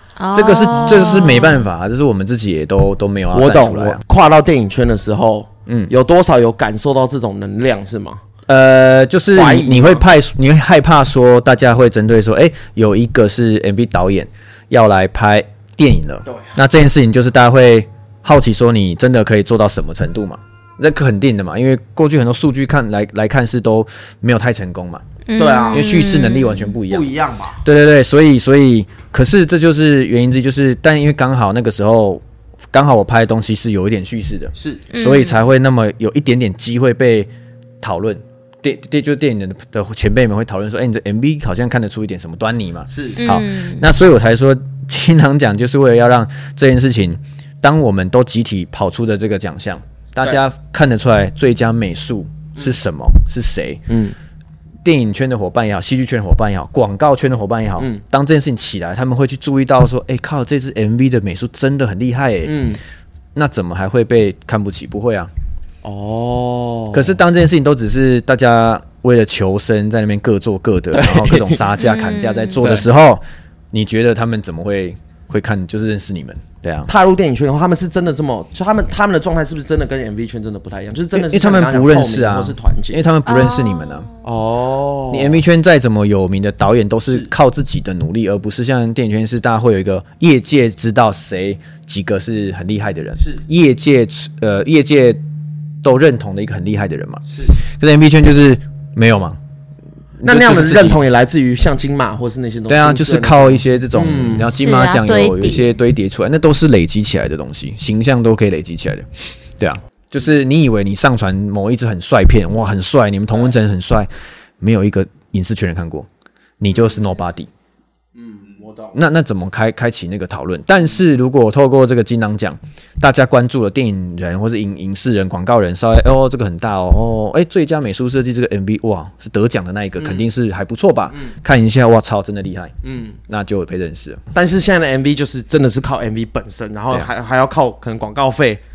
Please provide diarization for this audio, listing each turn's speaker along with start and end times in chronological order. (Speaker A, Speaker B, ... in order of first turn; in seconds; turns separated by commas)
Speaker A: 0.2-1.6, Speaker B: 0.3-4.0, Speaker C: 3.3-8.2, Speaker B: 5.7-5.9, Speaker B: 8.5-25.0, Speaker C: 9.3-10.1, Speaker C: 16.2-16.5, Speaker A: 25.3-26.6, Speaker C: 25.4-25.9, Speaker B: 25.7-27.1, Speaker C: 26.9-27.6, Speaker B: 27.6-37.3, Speaker C: 34.5-34.8, Speaker A: 34.9-35.4, Speaker B: 37.8-53.8, Speaker C: 42.9-43.2, Speaker A: 43.2-43.8, Speaker C: 53.9-54.1, Speaker B: 54.8-62.6, Speaker C: 62.5-62.8, Speaker B: 63.3-65.3, Speaker C: 65.8-67.2, Speaker B: 66.9-73.2, Speaker C: 70.9-71.6, Speaker A: 71.8-72.6, Speaker C: 72.6-72.9, Speaker B: 73.7-76.9, Speaker C: 76.9-83.0, Speaker B: 81.1-84.1, Speaker A: 83.3-84.0, Speaker C: 84.2-85.4, Speaker B: 85.1-95.2, Speaker B: 95.8-99.4, Speaker C: 97.3-97.6, Speaker B: 100.2-101.0, Speaker C: 100.2-104.5, Speaker B: 102.7-109.1, Speaker A: 104.5-105.6, Speaker B: 109.6-114.1, Speaker B: 114.6-116.1, Speaker B: 116.6-117.5, Speaker C: 116.7-117.0, Speaker C: 118.2-119.0, Speaker B: 118.9-132.7, Speaker C: 130.0-130.2, Speaker C: 132.8-133.2, Speaker B: 133.3-134.2, Speaker C: 134.3-138.6